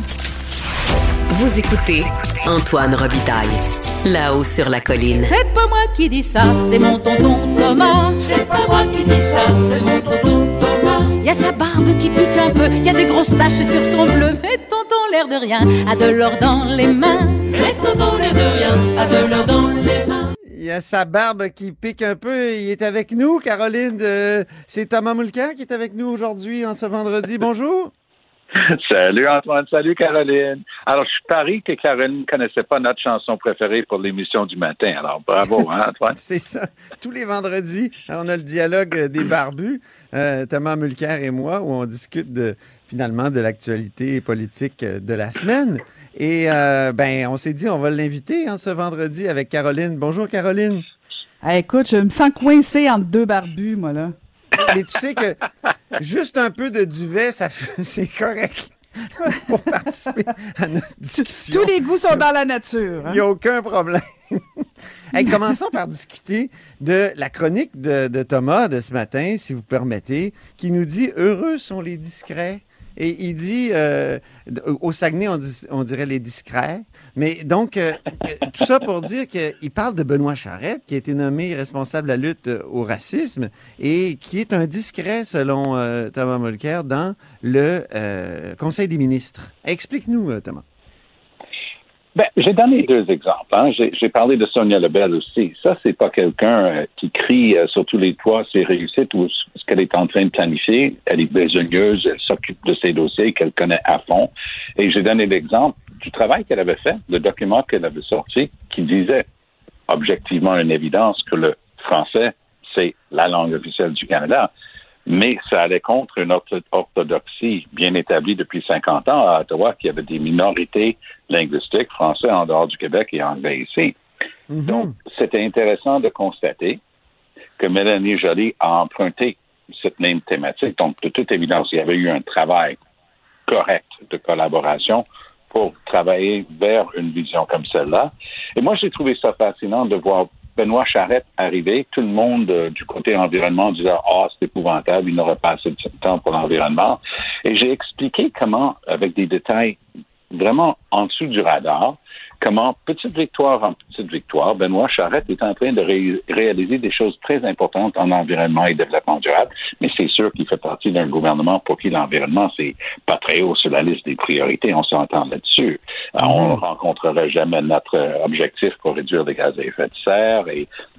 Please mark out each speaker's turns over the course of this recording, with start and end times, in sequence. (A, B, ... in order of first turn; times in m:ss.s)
0:01.3-0:05.3 A
0:05.2-0:20.3 B
0:20.5-0:27.9 C
0:28.6-0:36.2 D
0:36.1-0:50.8 C
0:51.4-0:54.1 E
0:54.6-0:55.4 C
0:56.0-1:02.3 C
1:01.4-1:03.2 E
1:03.0-1:30.6 C
1:32.2-1:49.2 D
1:49.9-1:54.5 D
1:55.1-2:04.0 D
2:04.5-2:04.9 C
2:04.7-2:06.8 D
2:07.6-2:12.8 D
2:13.5-2:29.8 D
2:30.3-2:50.7 D
2:46.2-2:46.6 C